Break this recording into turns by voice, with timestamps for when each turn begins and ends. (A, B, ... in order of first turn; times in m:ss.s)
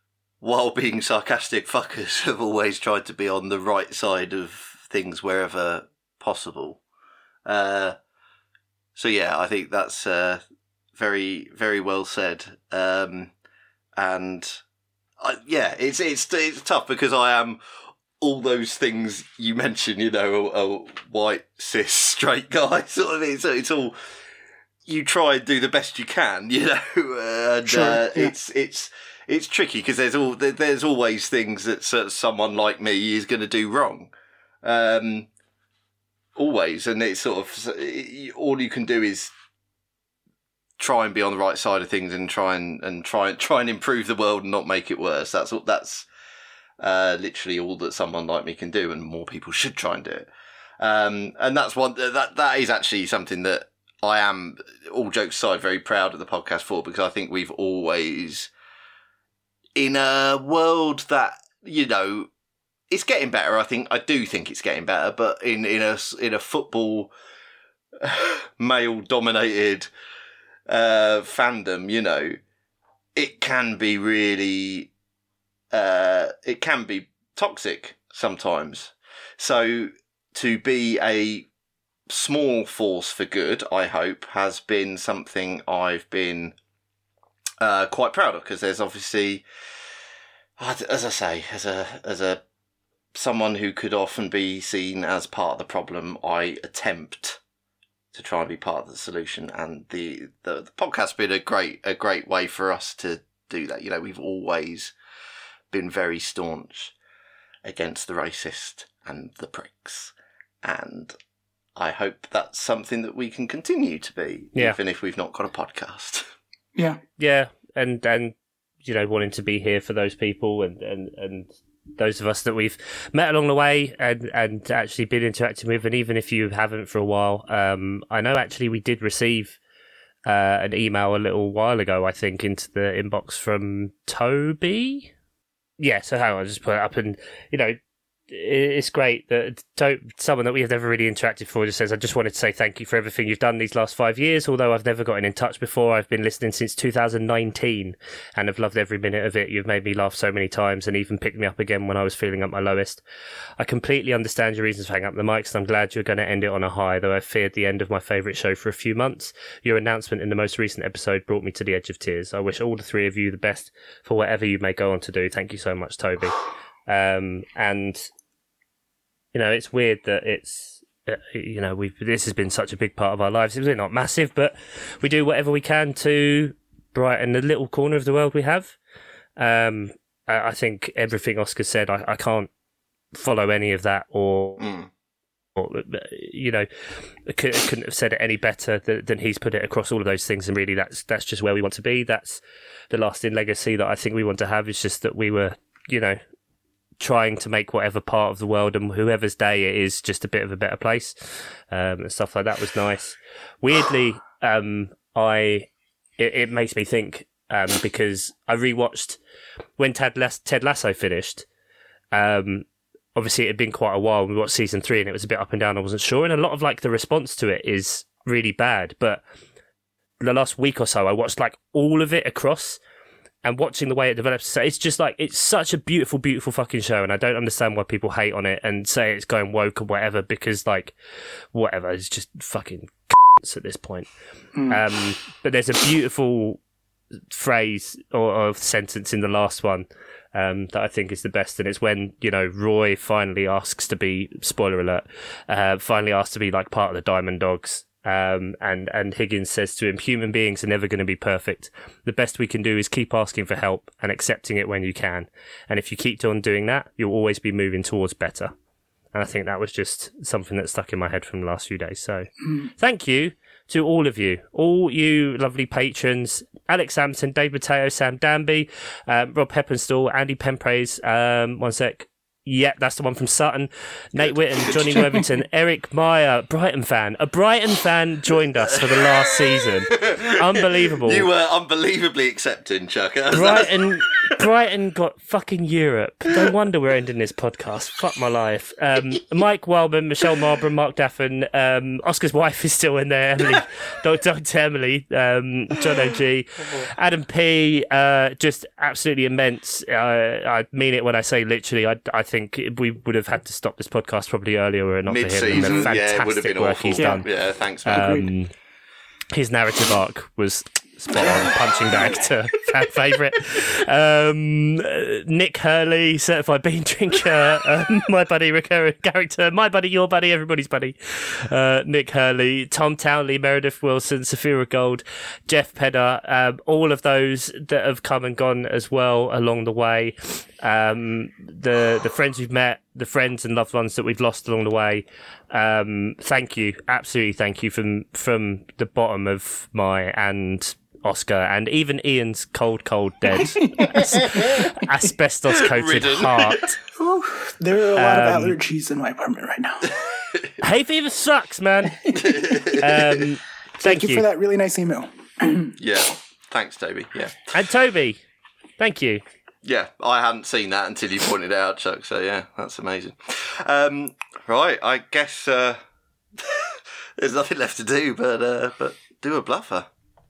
0:00.4-0:06.8 A
0:07.4-0:08.0 A
0:09.0-0:10.4 A
0:11.0-0:13.3 A
0:14.0-0:14.6 A
0:15.2-0:17.6 A
0:18.2-0:24.0 A
0:24.9-0:34.1 A
0:27.6-0:28.3 B
0:34.6-0:35.3 A
0:36.4-0:39.3 A
0:40.8-0:46.1 A
0:46.8-0:50.3 A
0:50.8-0:58.5 A
0:59.8-1:02.3 A
1:02.9-1:07.1 A
1:08.0-1:09.9 A
1:10.7-1:12.4 A
1:13.2-1:14.9 A
1:15.7-1:21.5 A
1:22.1-1:26.5 A
1:27.6-1:29.4 A
1:30.6-1:32.4 A
1:33.1-1:37.4 A
1:38.1-1:44.9 A
1:45.7-1:46.9 A
1:47.6-1:51.1 A
1:51.8-1:56.3 A
1:56.7-1:57.0 B
1:57.2-1:58.3 C
1:58.8-2:09.6 C
2:10.2-2:15.1 C
2:15.8-2:17.8 C
2:18.3-2:33.0 C
2:33.6-2:48.0 C
2:49.3-2:58.7 C
2:59.4-3:02.5 C
3:03.1-3:04.7 C
3:04.6-3:04.9 A
3:05.6-3:06.7 C
3:07.3-3:16.2 C
3:17.0-3:21.1 C
3:21.7-3:29.2 C
3:29.8-3:31.4 C
3:32.1-3:32.6 C
3:33.2-3:39.2 C
3:40.2-3:42.8 C
3:43.4-3:50.9 C
3:51.5-3:54.1 C
3:54.5-3:54.8 B
3:54.7-3:56.6 C
3:57.3-4:18.5 C
4:19.1-4:22.3 C
4:22.8-4:41.3 C
4:34.2-4:35.2 A
4:38.6-4:43.7 A
4:43.3-5:07.3 C
5:05.1-5:08.1 A
5:05.5-5:05.9 B
5:06.9-5:07.2 B
5:07.8-5:08.5 C
5:07.9-5:08.3 B
5:09.3-5:46.8 C
5:43.3-5:44.4 B
5:45.5-5:46.7 A
5:47.0-5:49.9 B
5:47.9-5:48.6 C
5:50.6-5:54.2 C
5:52.1-5:53.2 A
5:53.8-5:55.7 B
5:55.8-5:57.5 A
5:57.5-5:58.2 C
5:58.8-5:59.2 C
5:59.6-6:05.8 A
6:06.4-6:09.9 A